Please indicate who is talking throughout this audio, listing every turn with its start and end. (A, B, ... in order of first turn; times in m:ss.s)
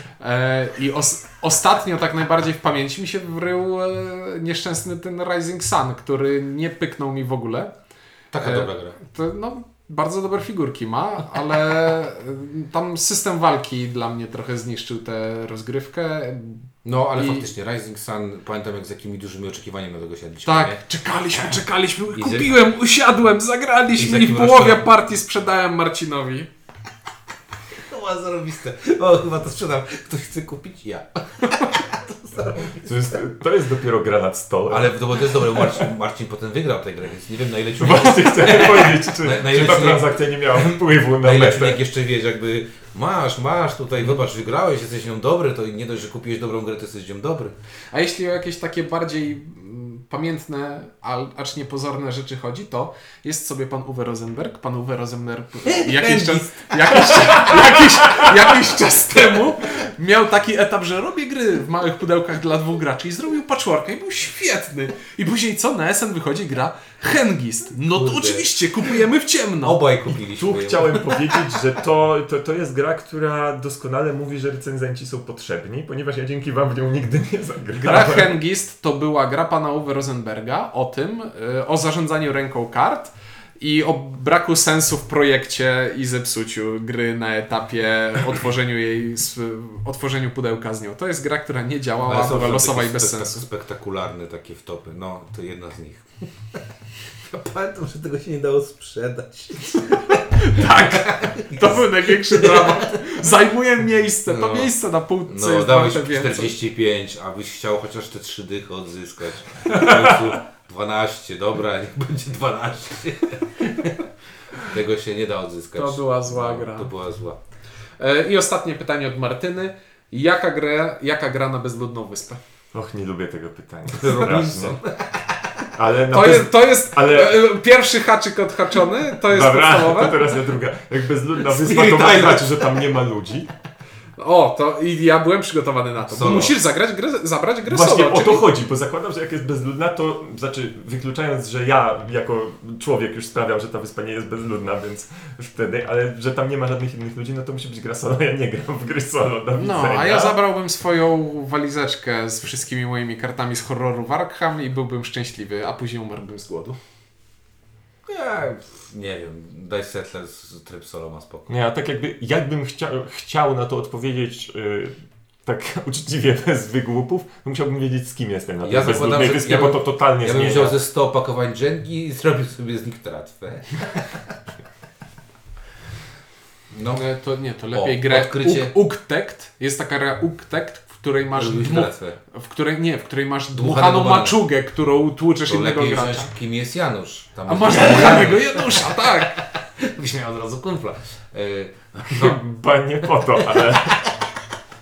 0:00.2-0:07.7 A
0:08.3-0:09.0 B
0:08.4-0:17.5 A
0:16.8-0:20.8 B
0:20.4-0:26.5 A
0:22.1-0:22.5 B
0:23.9-0:24.8 B
0:27.7-0:32.8 B
0:32.7-0:35.8 C
0:34.7-0:47.5 B
0:37.8-0:41.8 C
0:47.9-1:09.8 A
0:55.6-0:57.4 B
0:57.4-0:58.3 C
1:07.8-1:09.0 B
1:09.6-1:11.2 B
1:10.3-1:18.4 C
1:17.7-1:33.5 A
1:32.0-1:36.6 B
1:37.2-1:43.1 B
1:40.4-1:46.6 A
1:44.3-1:44.7 B
1:45.3-1:57.4 B
1:49.7-1:50.1 C
1:55.8-1:56.9 A
1:58.0-2:02.4 A
2:02.7-2:04.8 C
2:03.9-2:05.7 B
2:05.7-2:07.4 C
2:06.1-2:10.3 A
2:09.3-2:13.5 C
2:11.4-2:12.6 B
2:14.2-2:18.5 A
2:16.1-2:16.6 B
2:17.7-2:30.3 C
2:29.6-2:36.8 A
2:38.1-2:41.5 B
2:41.5-2:50.8 C
2:48.6-2:54.4 B
2:56.7-2:57.0 B
2:57.0-3:06.3 A
2:57.7-2:58.7 B
3:01.3-3:02.2 B
3:03.5-3:04.4 B
3:05.4-3:12.4 B
3:07.5-3:09.4 A
3:12.1-3:14.0 C
3:13.4-3:14.2 B